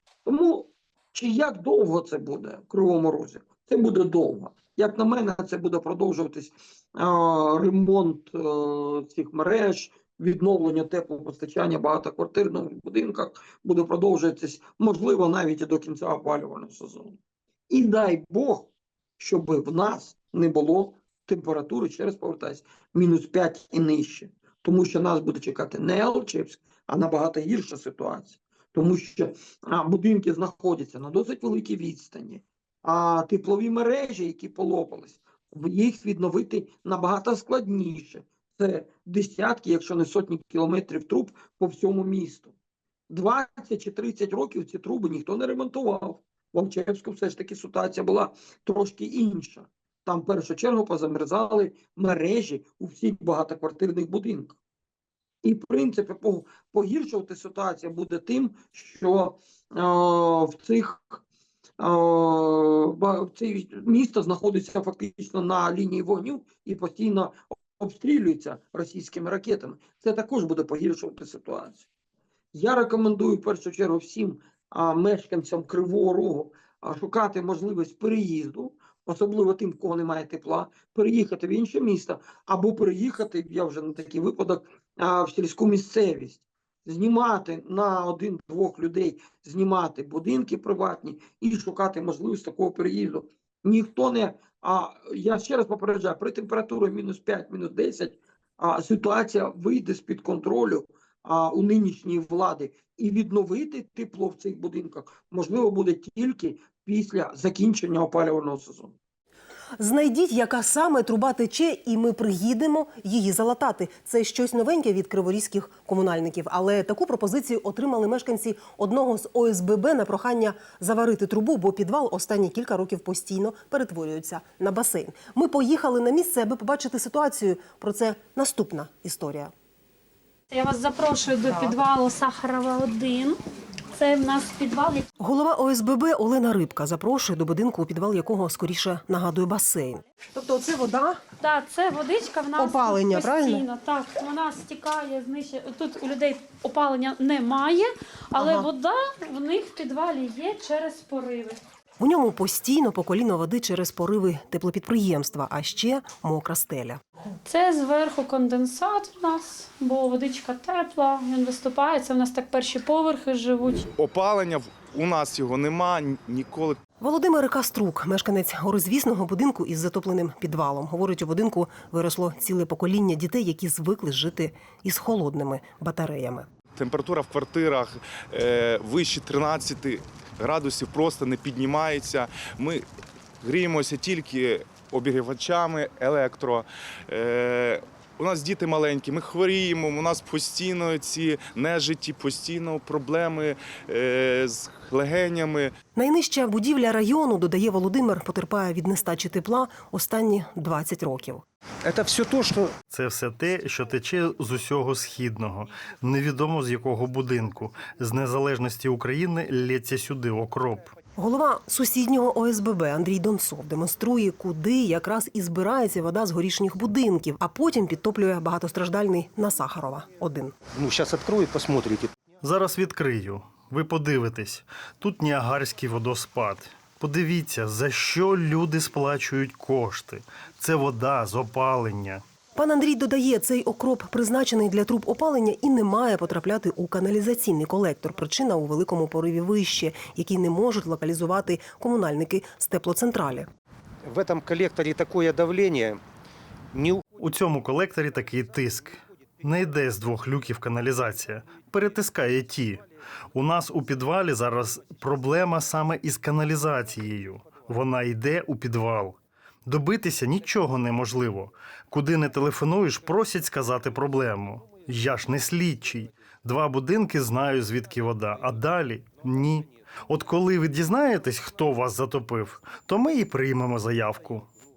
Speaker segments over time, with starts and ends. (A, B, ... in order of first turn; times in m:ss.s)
0:00.2-0:17.2 A
0:17.7-0:18.7 A
0:19.2-0:42.5 A
0:43.1-0:54.6 A
0:55.4-1:01.2 A
1:01.8-1:11.8 A
1:12.5-1:49.0 A
1:49.8-2:09.5 B
2:10.5-2:13.4 C
2:13.9-2:15.1 C
2:15.2-2:21.2 B
2:21.4-2:31.6 C
2:22.6-2:23.6 B
2:28.4-2:28.7 B
2:32.0-2:37.0 B
2:37.4-2:43.9 C
2:44.0-2:46.8 D
2:47.0-2:56.5 B
2:56.8-3:02.8 D
3:03.4-3:15.7 D
3:16.0-3:21.4 B
3:21.8-3:22.7 E
3:22.9-3:31.0 F
3:31.2-3:40.6 B
3:40.7-3:42.1 E
3:42.4-3:52.2 F
3:52.6-4:03.5 B
4:04.0-4:06.0 E
4:06.7-4:07.0 E
4:07.2-4:34.5 F